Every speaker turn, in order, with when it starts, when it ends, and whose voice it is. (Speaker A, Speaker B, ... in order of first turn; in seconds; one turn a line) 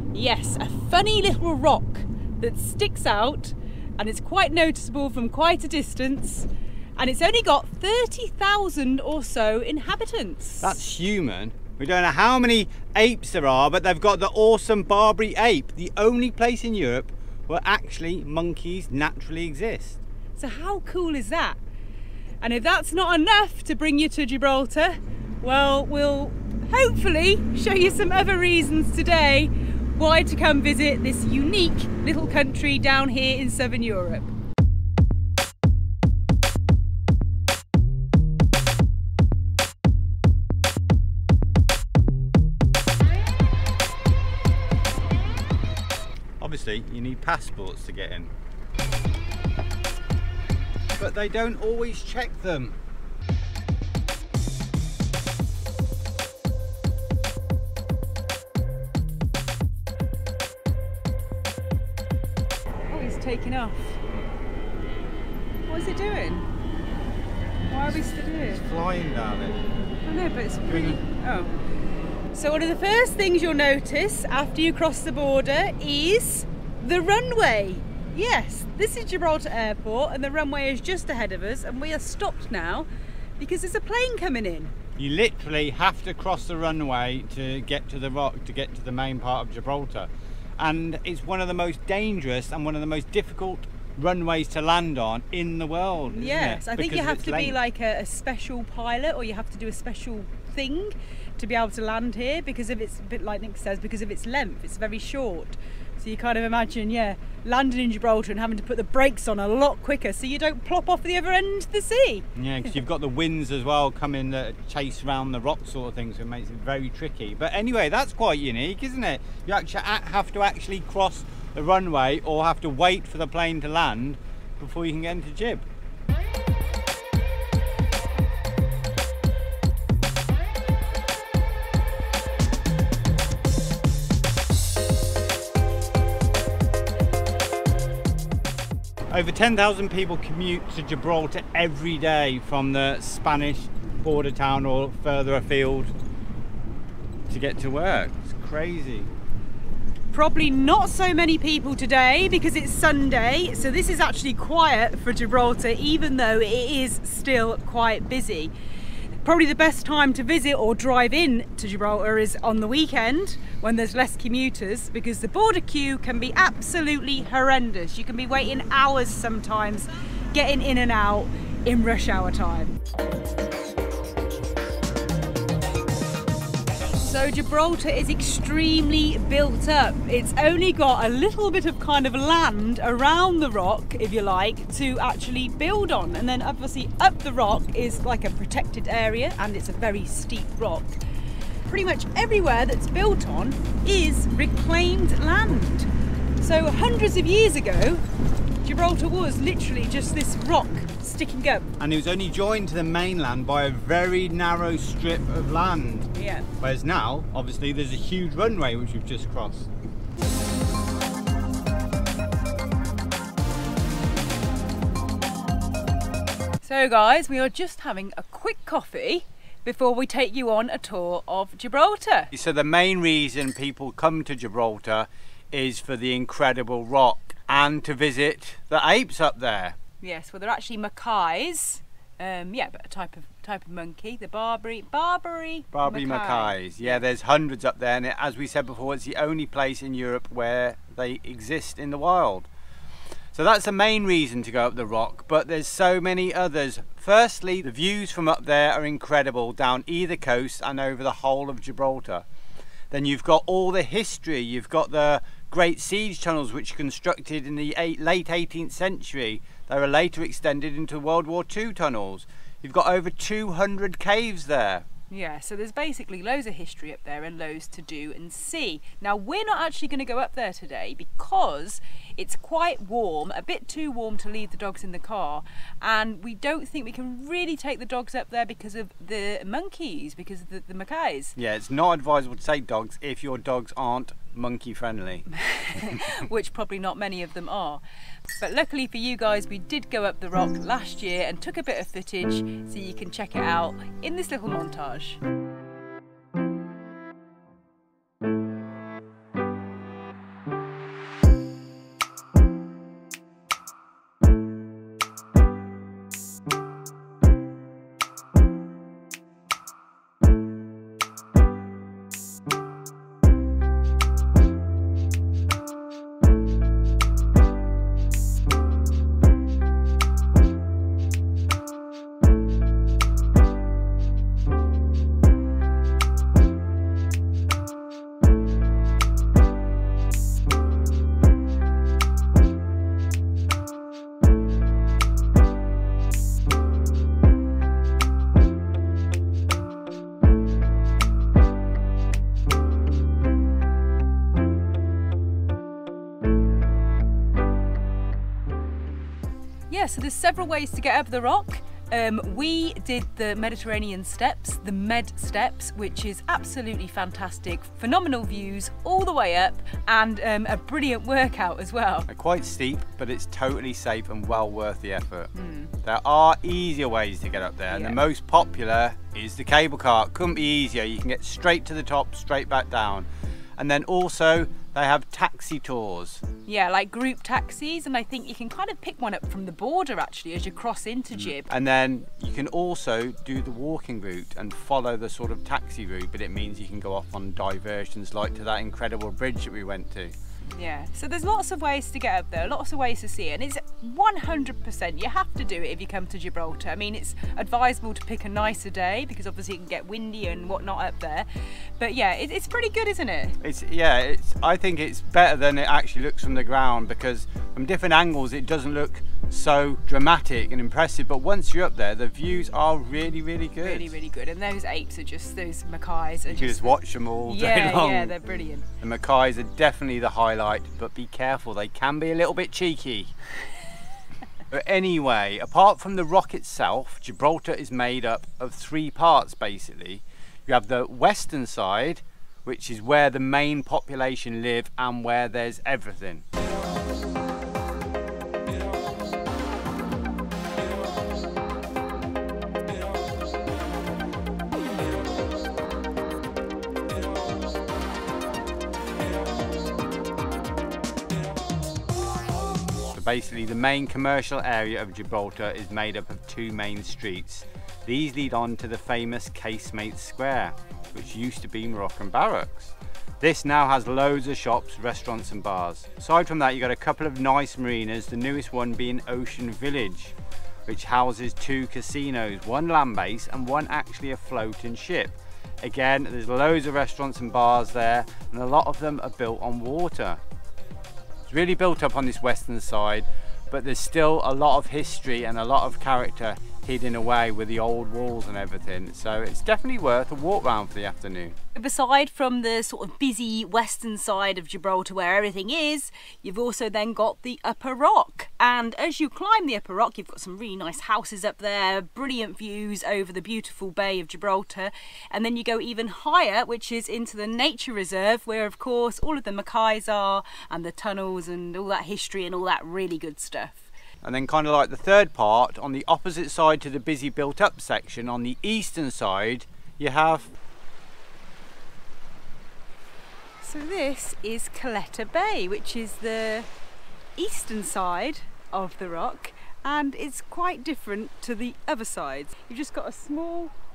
Speaker A: 0.1-10.8
Speaker B: 10.6-20.0
Speaker A: 20.4-21.6
Speaker A: 22.4-34.3
Speaker B: 46.4-48.3
Speaker B: 51.0-52.8
Speaker A: 62.9-64.0
Speaker A: 65.7-66.5
Speaker A: 67.7-68.6
Speaker B: 68.5-69.6
Speaker A: 70.0-71.5
Speaker B: 70.7-71.0
Speaker A: 72.3-82.9
Speaker A: 83.4-84.7
Speaker B: 85.0-97.6
Speaker A: 96.1-112.2
Speaker B: 112.3-125.6
Speaker B: 139.1-145.9
Speaker B: 147.3-149.1
Speaker A: 150.1-158.5
Speaker A: 159.2-172.8
Speaker A: 177.0-191.0
Speaker A: 191.7-198.0
Speaker A: 198.6-201.7
Speaker B: 201.8-209.7
Speaker A: 206.1-206.5
Speaker A: 216.6-222.3
Speaker B: 222.3-229.8
Speaker A: 230.0-237.0
Speaker B: 235.7-242.5
Speaker B: 243.3-252.2
Speaker B: 252.9-264.9
Speaker A: 265.1-281.3
Speaker B: 281.4-285.2
Speaker A: 285.3-287.8
Speaker A: 288.4-295.2
Speaker A: 349.7-362.1
Speaker B: 362.1-365.3
Speaker A: 365.3-365.7
Speaker B: 365.8-376.2
Speaker A: 367.7-368.0
Speaker A: 376.4-381.5
Speaker B: 381.2-390.1
Speaker A: 390.5-401.3
Speaker A: 401.8-403.4
Speaker B: 403.4-413.9
Speaker A: 413.6-418.7
Speaker B: 416.3-418.1
Speaker B: 418.8-423.1
Speaker B: 424.5-436.2
Speaker B: 452.9-470.1
Speaker B: 470.6-480.2
Speaker B: 481.3-491.3
Speaker A: 491.5-513.7
Speaker B: 514.0-520.3
Speaker A: 523.4-526.5
Speaker A: 527.2-533.5